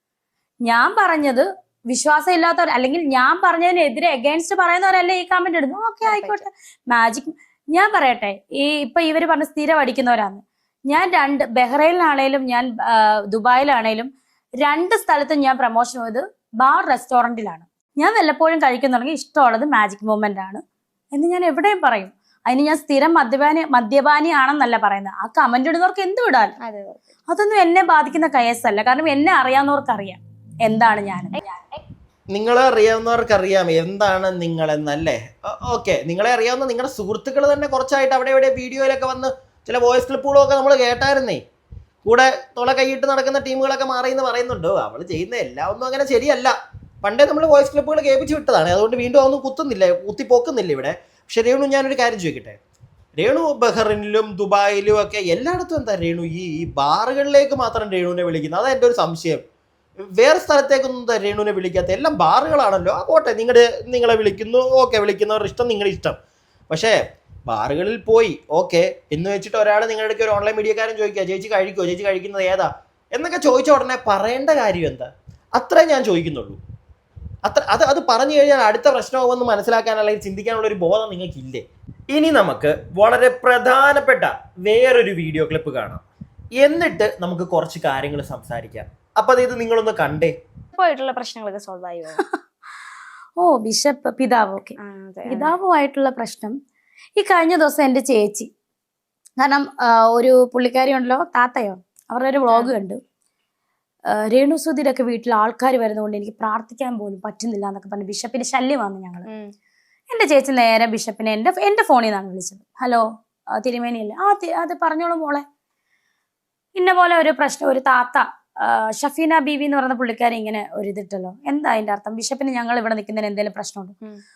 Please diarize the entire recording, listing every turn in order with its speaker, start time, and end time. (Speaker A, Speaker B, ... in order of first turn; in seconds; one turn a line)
Speaker A: 0.6-14.1
Speaker B: 6.0-6.4
Speaker A: 14.6-20.6
Speaker A: 21.1-26.5
Speaker B: 26.6-27.1
Speaker A: 27.3-31.4
Speaker C: 32.3-41.4
Speaker C: 42.0-52.6
Speaker C: 53.2-59.4
Speaker C: 60.2-66.2
Speaker C: 66.7-76.6
Speaker C: 77.4-86.0
Speaker C: 86.6-90.3
Speaker B: 90.8-92.2
Speaker A: 93.4-94.8
Speaker B: 94.8-95.5
Speaker A: 95.3-96.5
Speaker A: 97.2-98.5
Speaker A: 99.4-103.0
Speaker B: 102.5-102.7
Speaker A: 104.3-109.2
Speaker A: 110.1-113.0
Speaker A: 113.6-115.4
Speaker A: 116.8-123.9